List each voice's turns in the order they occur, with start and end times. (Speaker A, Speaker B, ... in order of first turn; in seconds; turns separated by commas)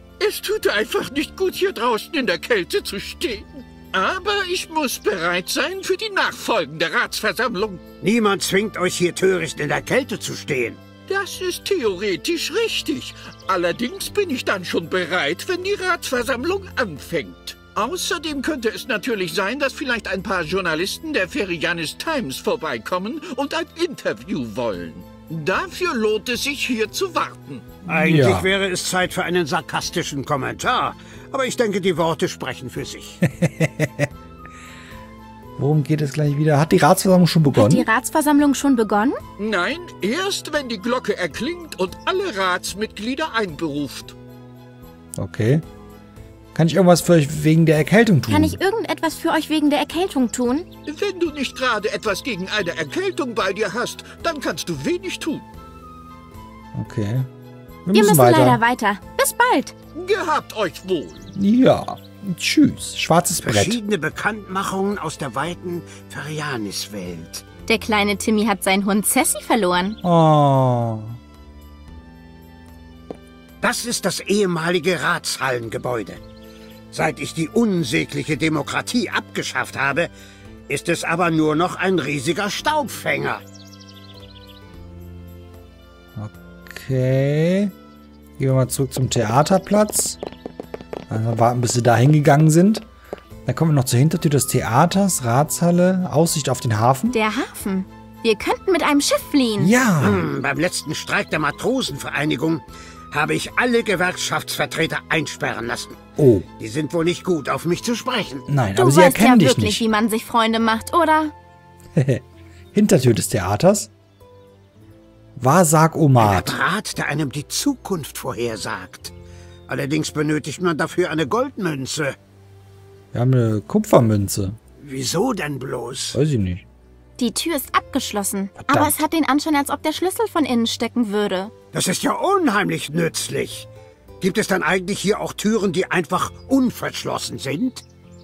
Speaker A: 0.2-7.8, Speaker B: 8.0-10.8, Speaker A: 11.1-27.6, Speaker B: 27.9-33.2, Speaker C: 27.9-28.5, Speaker C: 33.2-34.1, Speaker C: 35.6-37.9, Speaker D: 37.5-39.2, Speaker A: 39.4-44.1, Speaker C: 45.2-45.6, Speaker C: 46.5-48.6, Speaker D: 48.3-50.7, Speaker A: 50.9-55.4, Speaker C: 56.7-57.3, Speaker C: 57.9-58.6, Speaker D: 57.9-59.7, Speaker A: 59.9-61.3, Speaker C: 61.3-63.8, Speaker B: 63.4-67.4, Speaker D: 67.7-70.0, Speaker C: 70.0-71.2, Speaker B: 73.6-76.2, Speaker B: 76.9-80.1, Speaker B: 80.7-83.4, Speaker C: 86.2-87.7, Speaker C: 88.4-90.2, Speaker C: 91.1-92.8, Speaker C: 93.5-97.2, Speaker D: 97.1-99.7, Speaker C: 99.6-100.2, Speaker B: 100.0-106.0, Speaker C: 106.2-106.4, Speaker B: 106.6-108.5, Speaker C: 108.5-109.8, Speaker D: 108.8-111.3, Speaker C: 112.0-113.9, Speaker C: 115.4-116.6, Speaker B: 116.2-119.1, Speaker B: 119.7-122.2, Speaker C: 123.1-124.6, Speaker B: 124.8-126.2, Speaker C: 126.1-126.6, Speaker D: 127.2-131.5, Speaker C: 128.6-129.0, Speaker B: 131.7-133.7, Speaker B: 134.2-137.8